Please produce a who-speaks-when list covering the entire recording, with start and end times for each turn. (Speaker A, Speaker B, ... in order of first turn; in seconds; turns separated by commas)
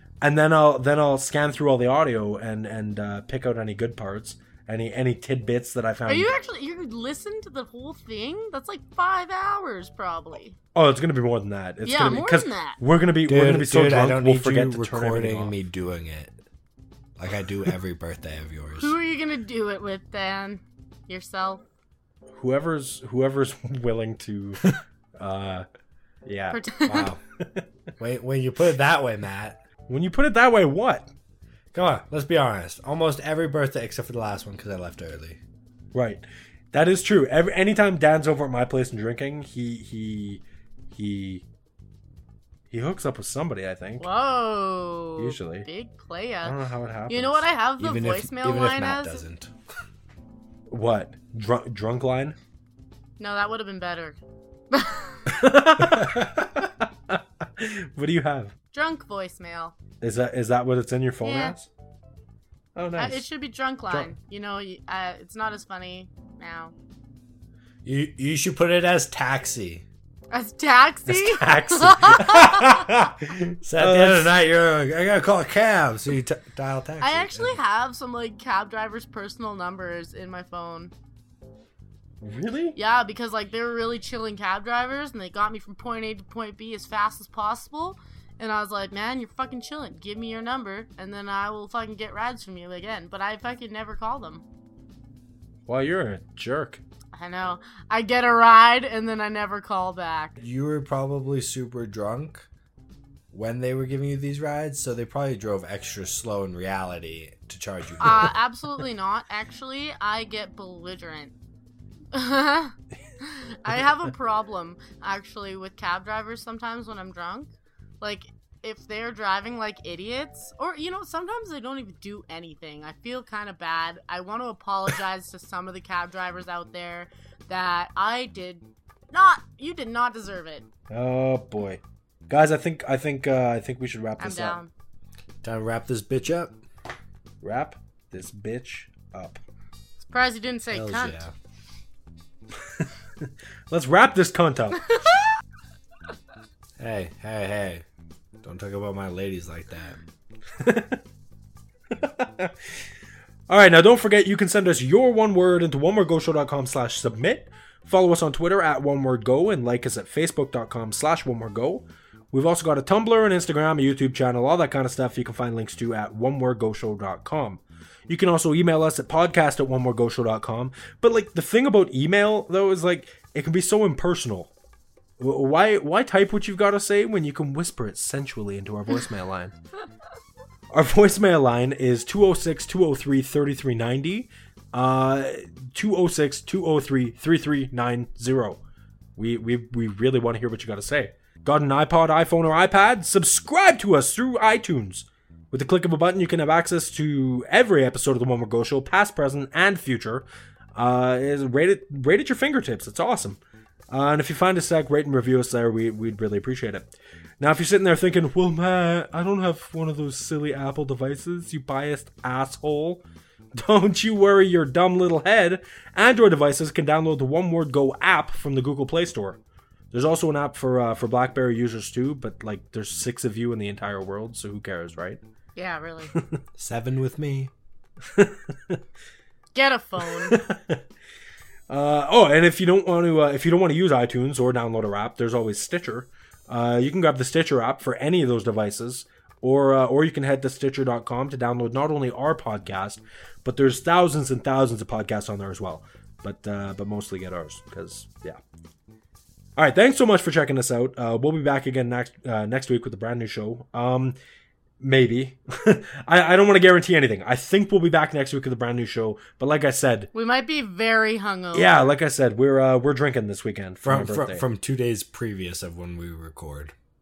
Speaker A: 0.2-6.3, Speaker B: 6.1-10.6, Speaker A: 10.8-15.6, Speaker B: 11.8-12.8, Speaker C: 13.3-16.4, Speaker C: 17.2-18.9, Speaker B: 18.8-21.6, Speaker A: 22.4-25.7, Speaker A: 26.3-27.6, Speaker B: 26.5-27.1, Speaker C: 28.0-29.6, Speaker A: 29.9-31.1, Speaker C: 31.7-35.4, Speaker A: 35.9-41.5, Speaker A: 42.7-44.1, Speaker B: 44.0-46.6, Speaker A: 45.2-45.7, Speaker A: 46.4-47.5, Speaker B: 47.1-49.2, Speaker C: 47.8-49.5, Speaker A: 50.7-52.4, Speaker B: 53.2-54.2, Speaker B: 54.7-55.3, Speaker A: 55.3-58.5, Speaker B: 58.7-59.7, Speaker A: 60.0-61.7, Speaker B: 61.2-61.5, Speaker A: 62.8-63.2, Speaker B: 63.0-66.7, Speaker C: 67.8-69.8, Speaker B: 70.3-72.9, Speaker A: 71.1-74.3, Speaker C: 73.6-77.6, Speaker B: 77.0-80.9, Speaker A: 82.2-82.8, Speaker B: 82.8-94.5, Speaker A: 95.7-96.8, Speaker B: 97.1-100.3, Speaker C: 100.4-102.5, Speaker C: 103.3-108.3, Speaker B: 108.0-111.3, Speaker B: 112.1-117.5, Speaker B: 118.0-130.7, Speaker A: 130.9-134.6, Speaker B: 134.2-134.7, Speaker C: 135.4-136.6, Speaker A: 137.4-139.4, Speaker B: 140.0-141.2, Speaker C: 140.7-141.3, Speaker A: 142.7-144.9, Speaker C: 146.8-147.8, Speaker C: 148.4-150.0, Speaker A: 150.6-151.0, Speaker A: 151.9-152.6, Speaker A: 153.5-174.5, Speaker A: 175.2-179.5, Speaker A: 180.7-188.6, Speaker A: 189.2-203.4, Speaker A: 203.9-213.0, Speaker A: 213.6-219.4, Speaker A: 219.9-225.2, Speaker B: 225.6-226.1, Speaker C: 226.6-227.5, Speaker A: 228.2-228.8, Speaker B: 229.5-230.4, Speaker A: 230.2-230.8, Speaker A: 231.7-248.4, Speaker A: 249.6-254.2, Speaker A: 254.8-260.1, Speaker B: 260.1-261.9, Speaker A: 261.5-264.5, Speaker C: 263.8-266.7